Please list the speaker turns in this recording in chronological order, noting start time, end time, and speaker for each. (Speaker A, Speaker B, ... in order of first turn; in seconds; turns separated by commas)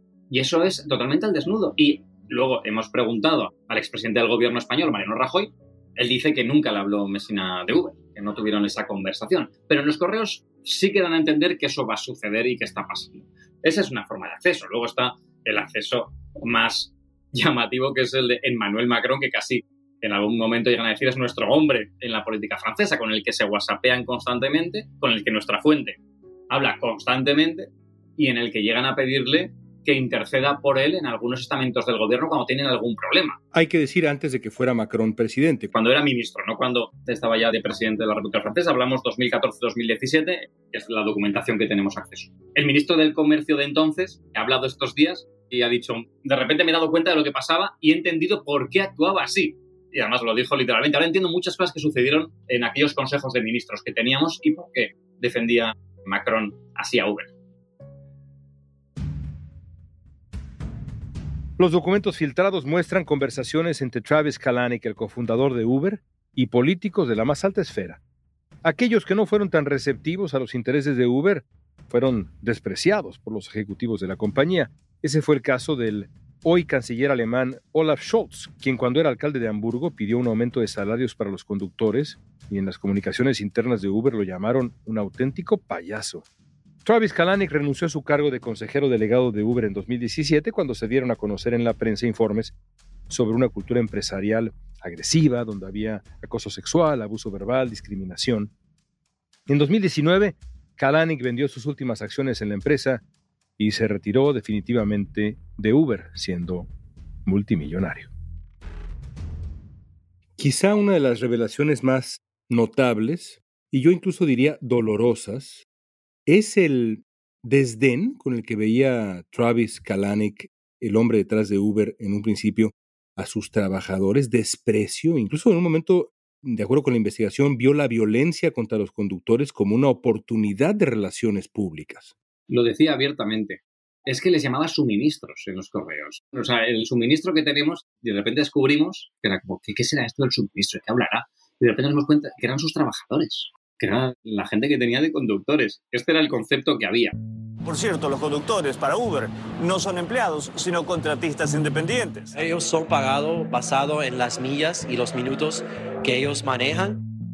Speaker A: 0.3-26.0, Speaker A: 26.5-33.4, Speaker B: 33.5-35.7, Speaker A: 35.7-57.3, Speaker B: 61.6-68.0, Speaker B: 68.6-86.2, Speaker B: 86.8-92.5, Speaker B: 93.1-98.5, Speaker B: 99.5-103.0, Speaker B: 103.6-106.7, Speaker B: 107.3-108.1, Speaker B: 110.4-115.7, Speaker B: 116.3-132.1, Speaker A: 132.5-147.2, Speaker C: 147.6-152.3, Speaker D: 152.3-157.0